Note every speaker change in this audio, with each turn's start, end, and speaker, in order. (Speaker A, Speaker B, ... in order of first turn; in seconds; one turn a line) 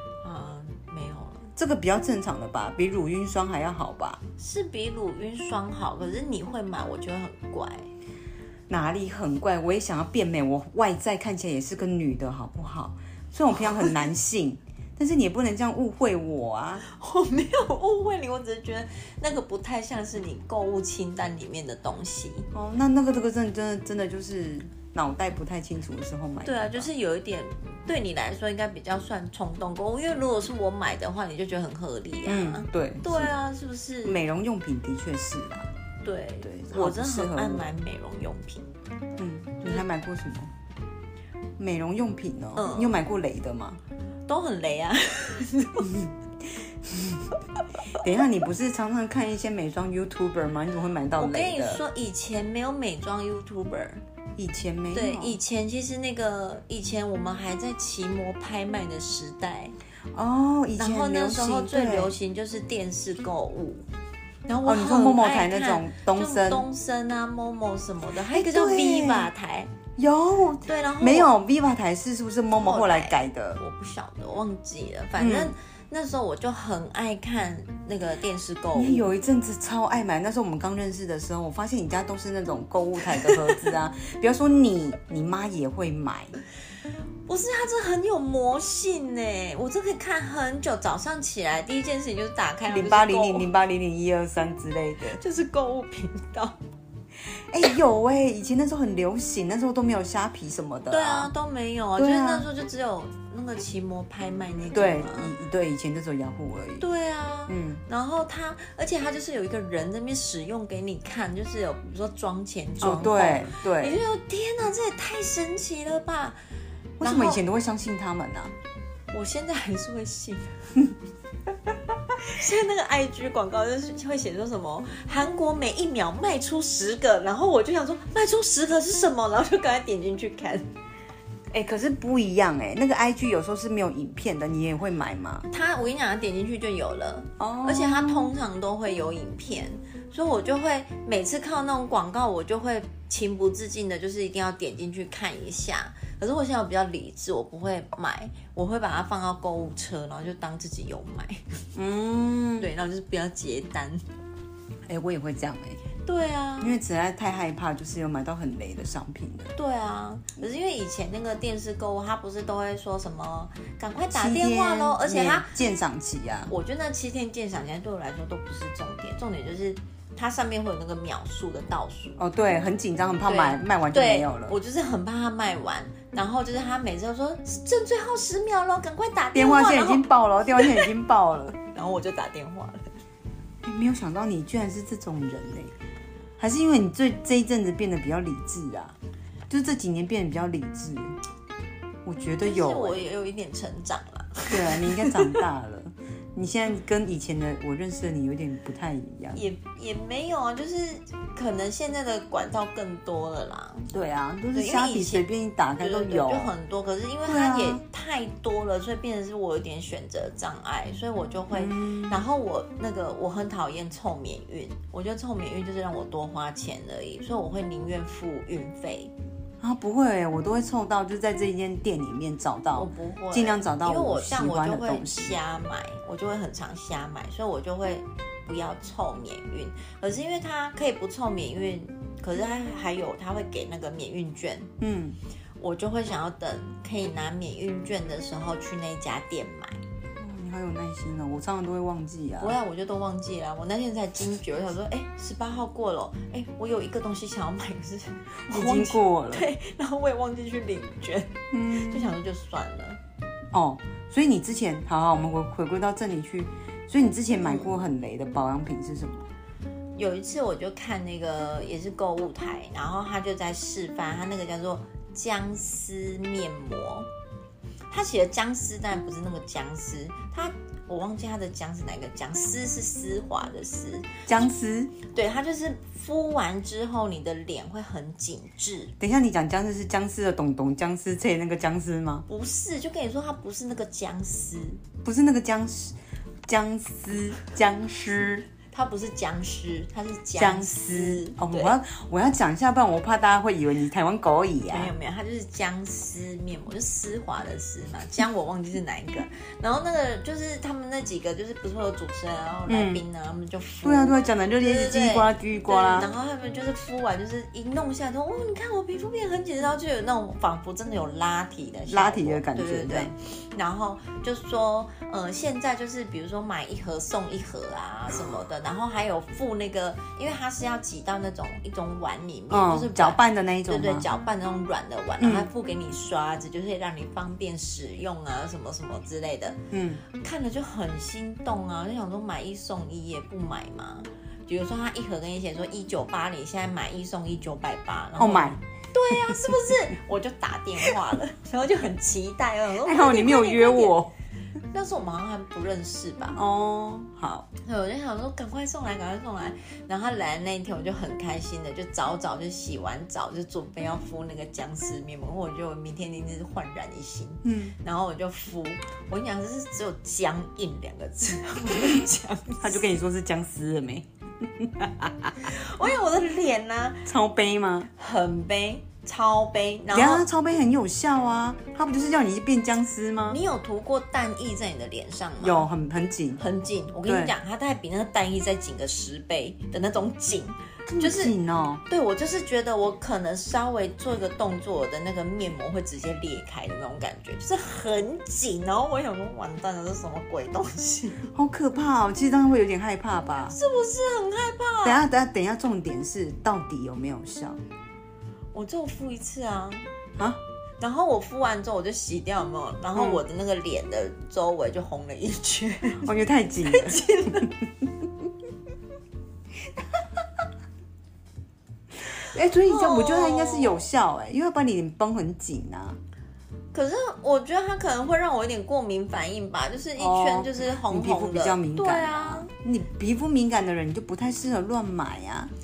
Speaker A: 0.2-1.5
Speaker B: 1.6-4.2
Speaker A: 4.4-7.9
Speaker B: 8.7-16.8
Speaker A: 13.6-13.9
Speaker A: 16.8-22.5
Speaker B: 22.5-26.9
Speaker A: 26.4-34.2
Speaker B: 32.2-33.4
Speaker B: 34.0-35.7
Speaker A: 36.0-38.7
Speaker B: 36.4-37.6
Speaker B: 39.2-40.5
Speaker B: 41.6-43.8
Speaker A: 42.5-42.9
Speaker A: 44.3-46.1
Speaker B: 45.8-47.3
Speaker B: 47.9-51.8
Speaker A: 51.1-54.0
Speaker B: 54.4-55.4
Speaker A: 54.9-59.7
Speaker B: 60.1-62.1
Speaker A: 60.8-63.8
Speaker A: 64.5-69.7
Speaker B: 64.6-66.7
Speaker B: 68.3-69.3
Speaker B: 70.0-73.6
Speaker A: 70.6-71.3
Speaker A: 72.5-79.1
Speaker B: 75.2-75.5
Speaker B: 78.7-86.3
Speaker A: 87.3-93.5
Speaker B: 92.7-95.2
Speaker A: 95.2-96.6
Speaker B: 97.5-101.3
Speaker A: 100.9-105.3
Speaker B: 102.0-102.5
Speaker B: 104.7-106.8
Speaker A: 106.8-116.4
Speaker B: 107.5-107.8
Speaker B: 112.8-114.0
Speaker B: 117.0-118.5
Speaker A: 117.0-117.4
Speaker A: 119.1-120.7
Speaker A: 122.2-130.7
Speaker B: 131.5-135.5
Speaker A: 135.5-151.6
Speaker B: 137.4-138.3
Speaker B: 151.7-152.7
Speaker A: 152.6-154.0
Speaker B: 154.9-155.8
Speaker A: 156.0-156.8
Speaker B: 156.6-159.5
Speaker A: 159.5-165.5
Speaker B: 164.1-166.5
Speaker A: 166.5-172.2
Speaker B: 172.2-174.6
Speaker A: 173.2-180.9
Speaker B: 179.3-181.6
Speaker A: 181.7-182.9
Speaker B: 183.6-185.7
Speaker B: 186.4-188.9
Speaker B: 189.5-191.2
Speaker B: 192.0-193.0
Speaker A: 192.4-195.4
Speaker B: 194.5-199.4
Speaker A: 199.3-203.9
Speaker B: 203.9-206.5
Speaker A: 204.5-205.3
Speaker A: 205.8-219.1
Speaker B: 207.2-207.8
Speaker B: 211.5-212.2
Speaker B: 219.6-225.4
Speaker A: 222.7-234.7
Speaker B: 234.8-235.2
Speaker A: 235.6-239.8
Speaker B: 240.2-242.6
Speaker A: 242.4-253.0
Speaker B: 248.5-249.5
Speaker B: 251.5-252.1
Speaker B: 253.5-259.3
Speaker A: 257.4-257.8
Speaker A: 259.9-267.1
Speaker A: 267.9-274.2
Speaker B: 274.3-274.9
Speaker A: 275.1-278.9
Speaker B: 279.0-282.2
Speaker A: 282.3-284.8
Speaker B: 285.0-288.5
Speaker A: 288.7-291.7
Speaker B: 290.4-294.9
Speaker A: 294.7-344.0
Speaker B: 302.7-303.0
Speaker B: 303.8-306.1
Speaker B: 311.9-313.1
Speaker B: 322.5-324.1
Speaker B: 325.2-325.5
Speaker B: 329.7-330.0
Speaker B: 338.2-338.6
Speaker B: 342.8-344.1
Speaker A: 344.7-346.4
Speaker B: 346.3-347.5
Speaker A: 347.6-362.8
Speaker B: 357.4-357.7
Speaker B: 362.6-365.5
Speaker A: 365.4-367.1
Speaker B: 367.0-367.9
Speaker A: 368.0-370.3
Speaker B: 369.9-373.4
Speaker A: 373.3-375.6
Speaker B: 375.4-376.4
Speaker A: 376.4-381.3
Speaker B: 377.1-377.3
Speaker B: 380.9-381.8
Speaker A: 381.9-391.3
Speaker B: 391.3-393.6
Speaker A: 393.5-395.0
Speaker B: 394.8-397.6
Speaker A: 398.5-399.9
Speaker A: 400.8-406.1
Speaker B: 402.9-403.2
Speaker B: 406.0-407.4
Speaker A: 406.6-407.5
Speaker B: 412.1-416.0
Speaker A: 412.6-413.9
Speaker A: 416.7-422.5
Speaker B: 420.0-425.5